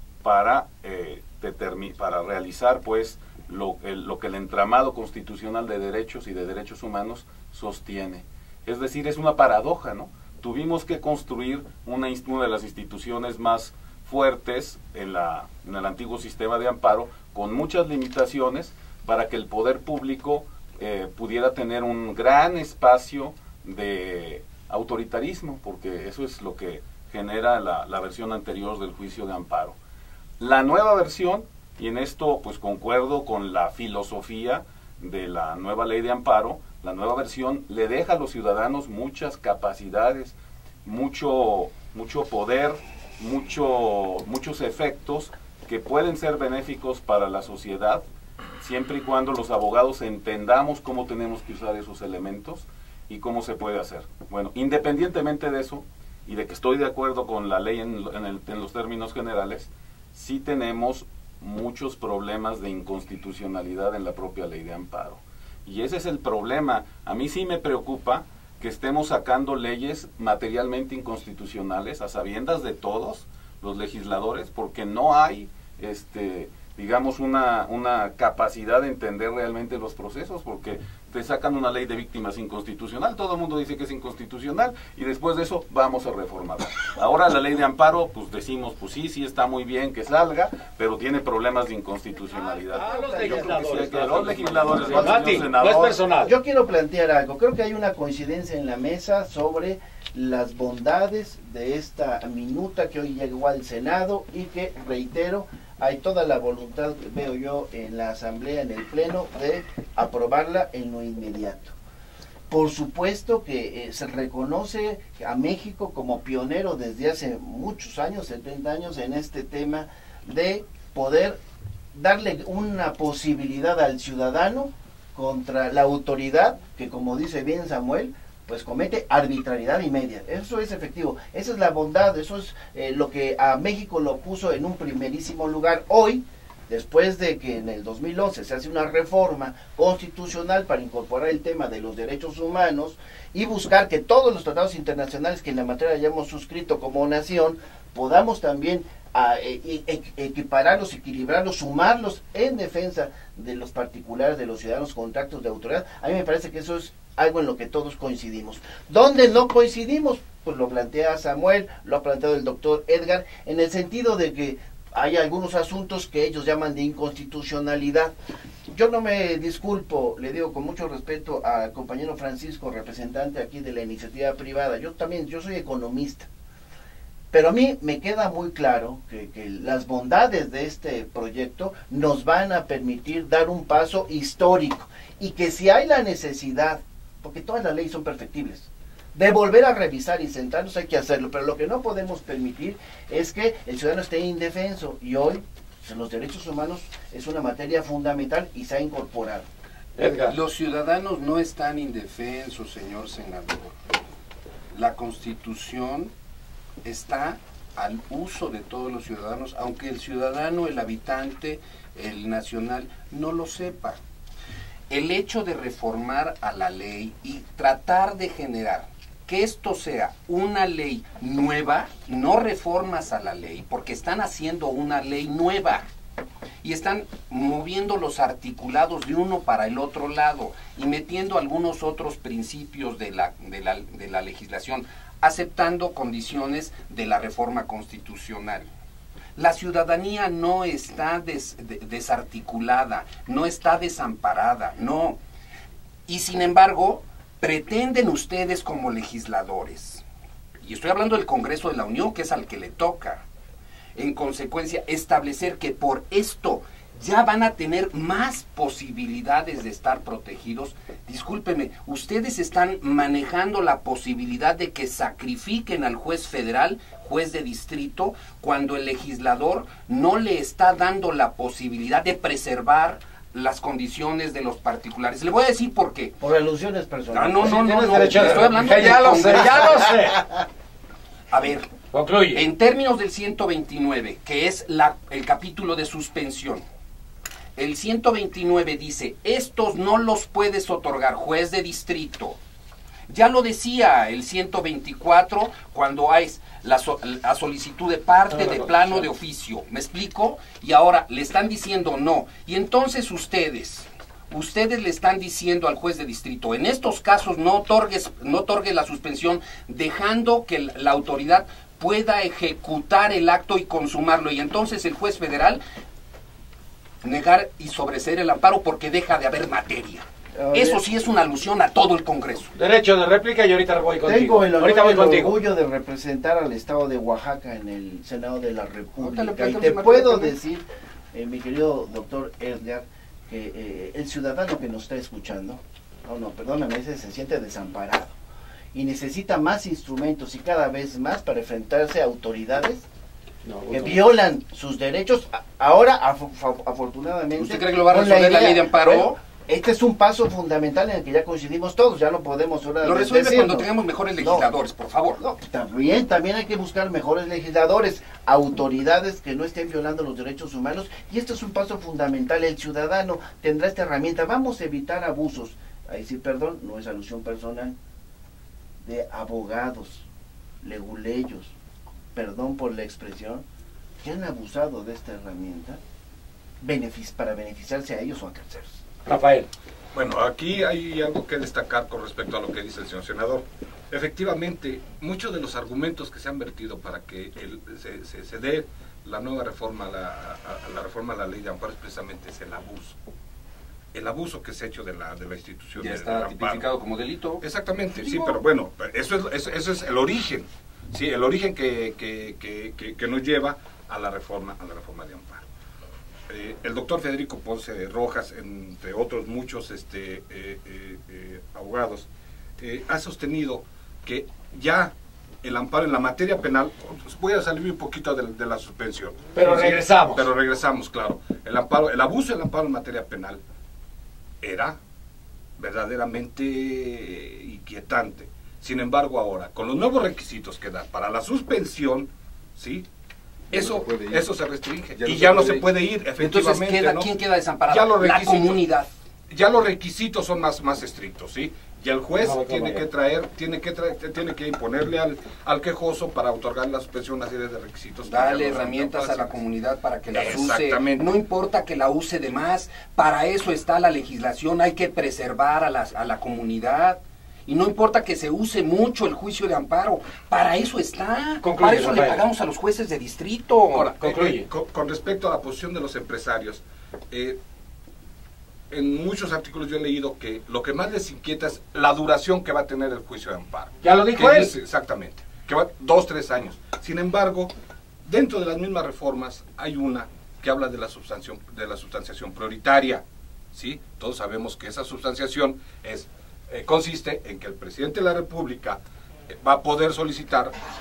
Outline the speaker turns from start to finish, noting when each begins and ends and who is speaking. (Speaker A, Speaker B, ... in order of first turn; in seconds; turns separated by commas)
Speaker A: 0.2-29.8, Speaker A: 30.4-48.0, Speaker A: 48.6-96.0, Speaker B: 92.4-95.6, Speaker C: 92.7-96.3, Speaker B: 96.2-111.8, Speaker B: 112.5-121.4, Speaker B: 121.9-168.1, Speaker B: 168.7-176.3, Speaker B: 177.3-199.5, Speaker C: 200.0-200.4, Speaker D: 200.3-203.8, Speaker D: 204.7-206.1, Speaker D: 206.8-214.0, Speaker D: 214.9-225.9, Speaker D: 226.6-238.7, Speaker D: 239.4-245.2, Speaker D: 246.1-250.0, Speaker D: 250.6-253.2, Speaker D: 253.9-276.2, Speaker B: 276.2-279.9, Speaker D: 277.1-279.9, Speaker C: 277.4-280.3, Speaker D: 281.3-281.7, Speaker C: 281.9-282.4, Speaker D: 282.3-286.6, Speaker D: 287.6-292.4, Speaker D: 293.1-315.6, Speaker C: 298.3-299.1, Speaker D: 317.0-322.5, Speaker B: 320.4-320.8, Speaker C: 322.6-325.4, Speaker B: 324.0-338.2, Speaker D: 329.0-330.4, Speaker B: 338.7-342.9, Speaker C: 343.4-344.1, Speaker B: 343.7-354.5, Speaker D: 347.4-349.2, Speaker D: 352.8-355.2, Speaker B: 355.2-367.8, Speaker B: 368.8-370.1, Speaker B: 370.6-371.5, Speaker B: 372.1-373.4, Speaker B: 374.0-375.8, Speaker B: 376.6-378.8, Speaker C: 379.1-379.5, Speaker E: 379.9-393.0, Speaker E: 393.9-396.7, Speaker D: 395.8-398.4, Speaker E: 397.4-405.4, Speaker E: 406.3-412.1, Speaker E: 412.6-423.4, Speaker C: 419.4-420.3, Speaker E: 424.4-424.8, Speaker E: 425.6-432.9, Speaker E: 433.5-437.1, Speaker D: 433.5-434.3, Speaker D: 435.0-438.9, Speaker E: 437.7-438.6, Speaker E: 439.3-449.4, Speaker C: 442.2-442.9, Speaker D: 448.1-464.0, Speaker E: 450.1-451.1, Speaker C: 461.4-462.2, Speaker E: 463.7-467.4, Speaker C: 464.0-464.5, Speaker E: 468.7-477.5, Speaker C: 473.8-474.6, Speaker E: 478.1-490.6